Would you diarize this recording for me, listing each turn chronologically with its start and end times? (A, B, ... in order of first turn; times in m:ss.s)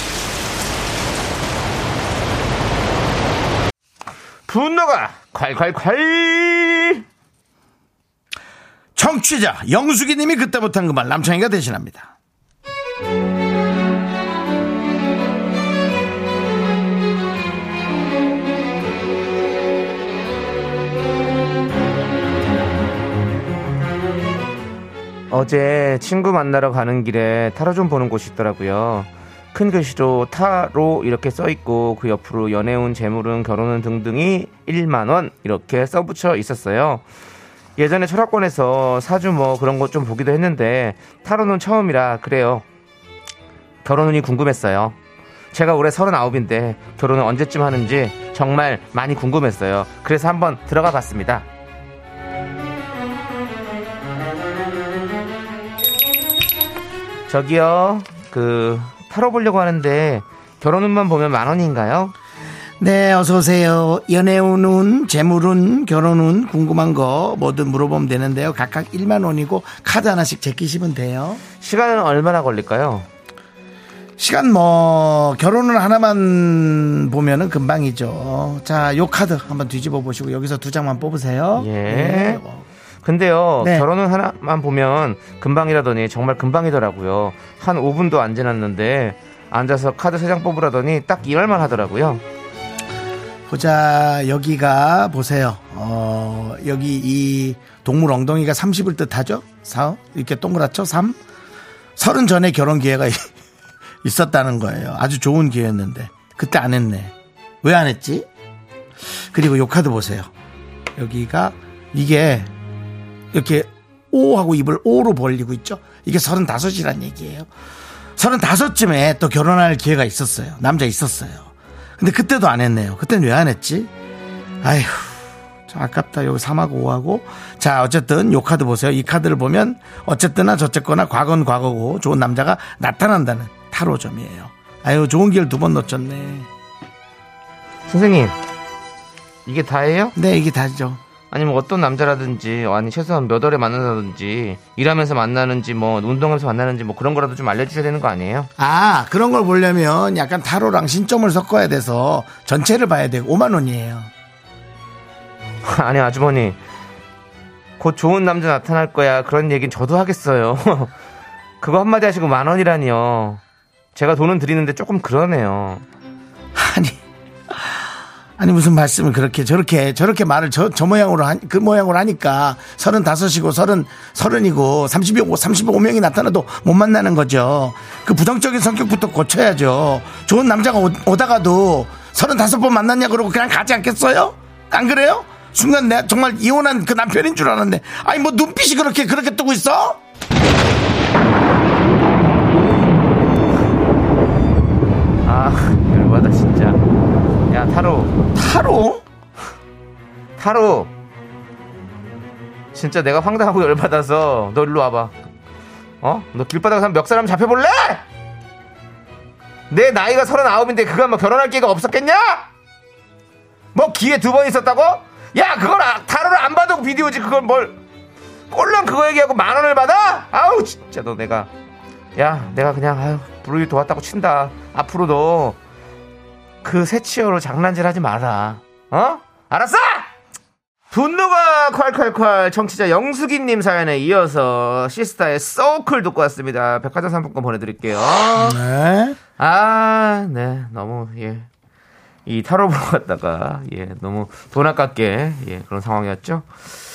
0:04.5-0:07.0 A
0:09.0-0:12.1 B
0:25.3-0:37.0 A
0:37.8-0:42.6 A
0:43.8-0:45.0 A
0:45.5-0:51.5 A
0:57.3-1:02.1 A
1:02.8-1:11.4 B
1:11.6-1:13.1 A
1:14.2-1:22.7 B
1:21.6-1:22.4 A
1:23.0-1:32.2 A
1:23.6-1:23.9 B
1:33.5-1:41.2 B
1:42.0-1:43.3 B
1:44.0-1:48.3 B
1:49.3-1:50.3 B
1:51.0-1:52.5 B
1:53.3-1:57.5 B
1:58.2-2:03.9 B
2:04.6-2:16.5 B
2:17.9-2:18.4 A
2:19.5-2:20.2 A
2:20.2-2:21.0 B
2:21.3-2:28.5 A
2:28.6-2:34.1 B
2:35.6-2:36.6 A
2:37.8-2:40.9 A
2:41.6-2:43.4 A
2:44.0-2:45.8 A
2:46.6-3:10.0 B
3:15.2-3:16.8 A
3:17.5-3:18.1 A
3:18.4-3:19.0 B
3:20.4-3:20.9 A
3:22.7-3:25.1 A
3:26.0-3:28.0 A
3:29.7-3:32.5 A
3:33.7-3:37.8 A
3:38.5-3:41.5 A
3:42.2-3:45.6 A
3:46.6-3:50.1 A
3:50.9-3:58.6 A
3:58.2-3:59.2 B
3:59.4-4:01.5 A
4:02.3-4:06.6 A